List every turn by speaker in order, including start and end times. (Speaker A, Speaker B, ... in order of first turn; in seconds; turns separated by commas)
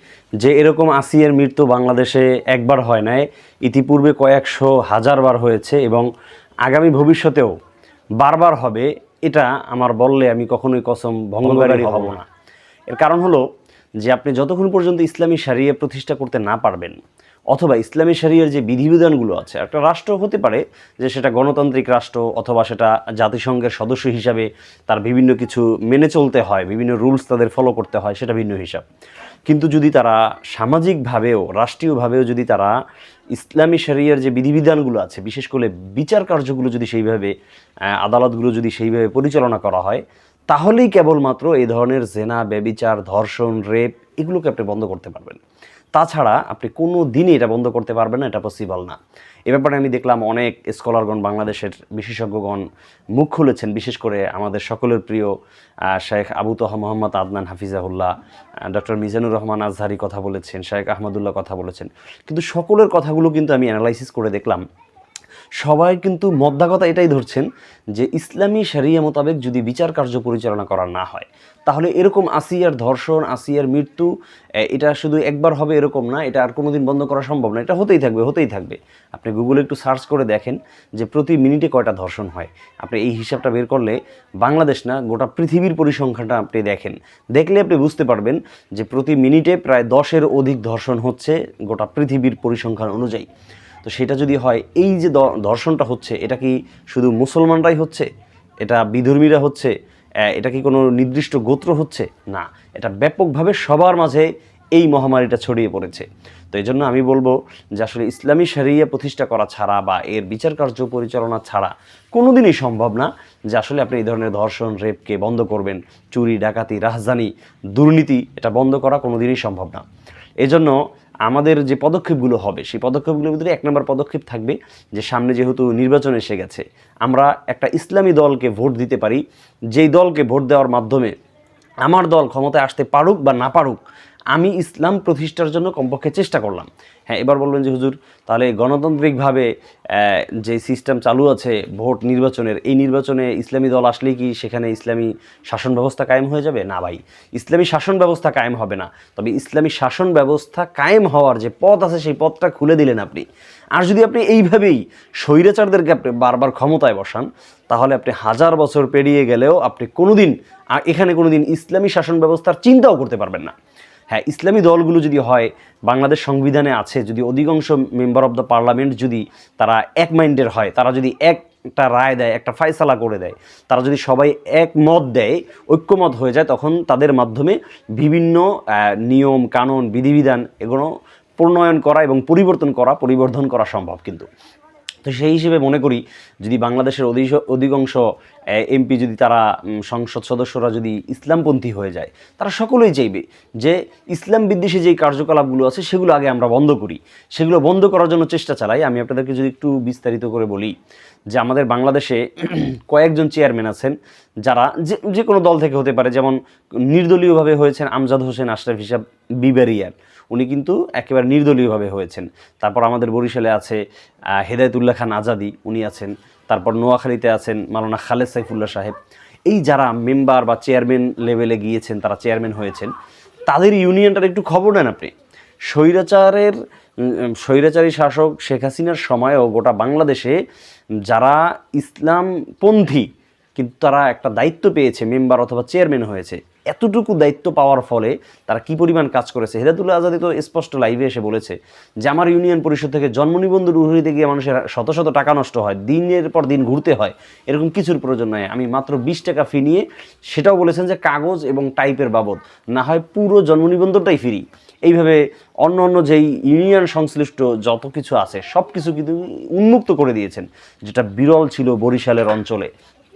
Speaker A: 0.4-6.1, Speaker A: 6.7-7.5, Speaker A: 8.2-12.3, Speaker A: 12.9-13.4, Speaker A: 14.0-17.0, Speaker A: 17.5-28.8, Speaker A: 29.5-32.7, Speaker A: 33.3-37.3, Speaker A: 38.0-45.4, Speaker A: 46.0-52.6, Speaker A: 53.1-55.3, Speaker A: 55.9-58.1, Speaker A: 58.7-64.6, Speaker A: 65.6-74.1, Speaker A: 74.7-93.3, Speaker A: 93.8-98.1, Speaker A: 98.6-99.7, Speaker A: 100.3-119.8, Speaker A: 120.4-129.2, Speaker A: 129.7-131.1, Speaker A: 131.8-133.8, Speaker A: 134.3-153.2, Speaker A: 153.8-163.5, Speaker A: 164.1-184.3, Speaker A: 185.0-188.0, Speaker A: 188.6-200.7, Speaker A: 201.3-213.8, Speaker A: 214.4-218.9, Speaker A: 219.5-222.9, Speaker A: 223.5-225.1, Speaker A: 225.7-230.4, Speaker A: 231.1-262.7